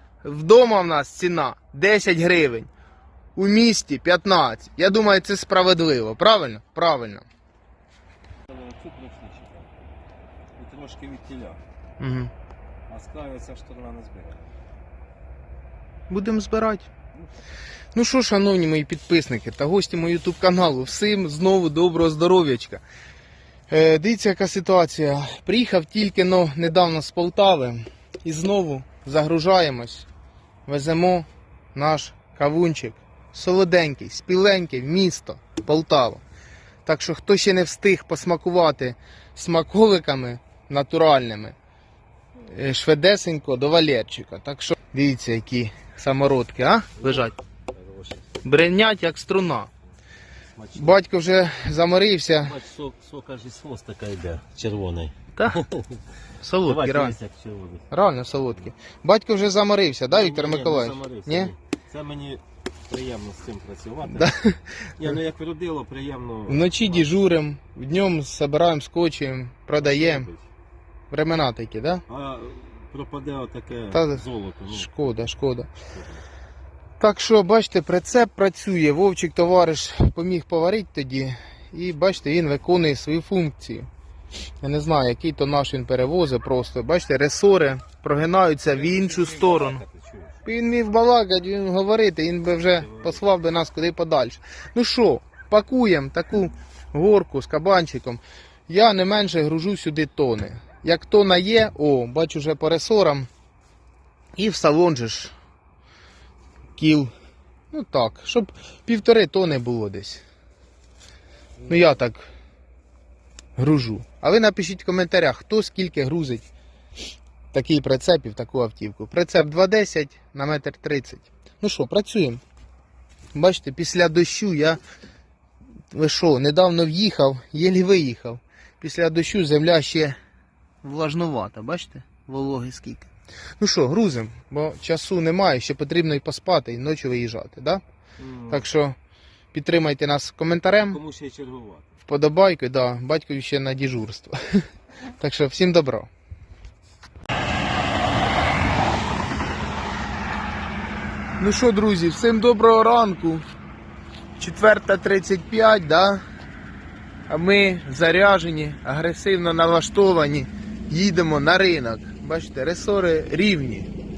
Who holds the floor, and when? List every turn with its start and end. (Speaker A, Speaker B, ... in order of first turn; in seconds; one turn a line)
Speaker A: 0.2-2.7
Speaker A: 3.4-7.2
Speaker B: 8.5-9.7
Speaker B: 10.6-11.6
Speaker A: 12.0-12.3
Speaker B: 12.9-14.5
Speaker A: 16.1-16.9
Speaker A: 17.9-22.8
Speaker A: 23.7-30.1
Speaker A: 30.7-36.2
Speaker A: 36.9-41.6
Speaker A: 42.5-47.4
Speaker B: 47.0-48.3
Speaker A: 48.4-49.7
Speaker B: 50.6-51.0
Speaker A: 50.8-52.6
Speaker B: 52.4-56.0
Speaker A: 55.4-55.6
Speaker A: 56.4-57.2
Speaker B: 56.6-57.9
Speaker A: 57.9-61.5
Speaker B: 60.1-64.3
Speaker A: 64.1-64.7
Speaker B: 65.0-67.2
Speaker A: 66.5-70.3
Speaker B: 69.8-70.5
Speaker A: 71.1-72.0
Speaker B: 72.1-75.3
Speaker A: 73.9-75.7
Speaker B: 75.9-76.2
Speaker A: 77.0-83.9
Speaker A: 84.6-89.8
Speaker B: 88.7-90.4
Speaker A: 90.5-103.3
Speaker B: 92.7-93.2
Speaker A: 104.4-105.3
Speaker A: 106.8-107.1
Speaker A: 107.7-110.2
Speaker A: 111.7-112.3
Speaker A: 113.6-116.5
Speaker A: 117.5-122.4
Speaker A: 123.3-124.8
Speaker A: 125.9-130.2
Speaker A: 130.8-137.8
Speaker B: 138.2-138.7
Speaker A: 138.5-139.0
Speaker A: 139.5-141.0
Speaker B: 140.8-141.9
Speaker A: 142.1-144.6
Speaker A: 145.2-146.1
Speaker A: 151.4-153.4
Speaker A: 154.4-156.2
Speaker A: 157.3-163.9